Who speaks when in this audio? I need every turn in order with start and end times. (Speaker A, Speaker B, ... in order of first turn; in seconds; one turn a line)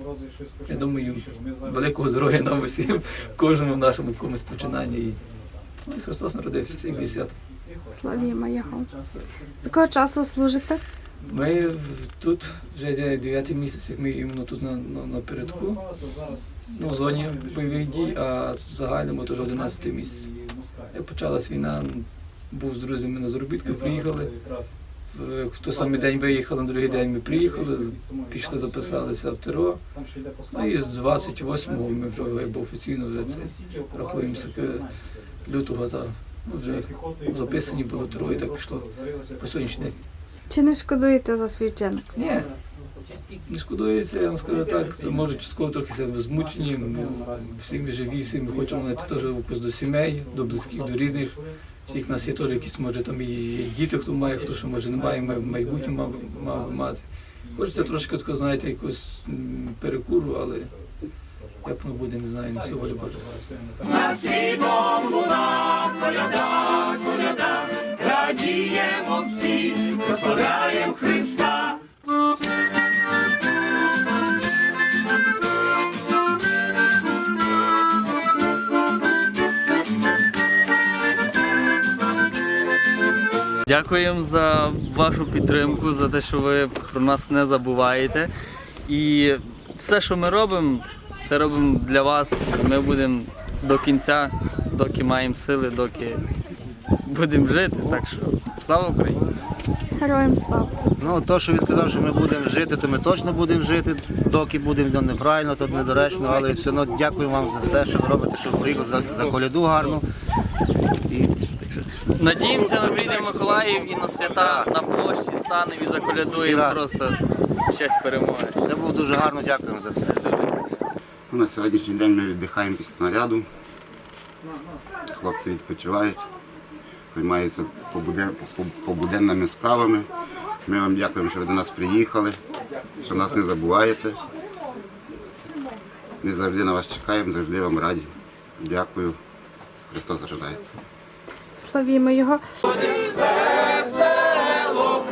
Speaker A: 0.7-5.2
Speaker A: 5.8-7.3
Speaker B: 7.9-8.9
Speaker B: 9.6-10.8
Speaker A: 11.3-15.8
Speaker A: 16.7-20.3
Speaker A: 20.9-24.3
Speaker A: 25.1-29.8
Speaker A: 30.5-34.9
Speaker A: 35.4-40.0
Speaker B: 40.5-42.0
Speaker A: 42.1-42.5
Speaker A: 43.4-60.7
Speaker A: 61.6-63.4
Speaker C: 83.7-88.3
Speaker C: 88.9-96.2
Speaker C: 97.1-99.3
Speaker B: 100.0-100.7
Speaker D: 101.0-110.0
Speaker C: 111.7-117.2
Speaker C: 117.7-118.7
Speaker D: 118.7-120.1
Speaker C: 120.2-120.6
Speaker E: 121.3-123.5
Speaker E: 125.2-126.2
Speaker E: 127.1-130.1
Speaker E: 130.7-132.4
Speaker E: 133.0-134.2
Speaker E: 136.2-139.2
Speaker E: 139.9-140.7
Speaker B: 141.6-142.4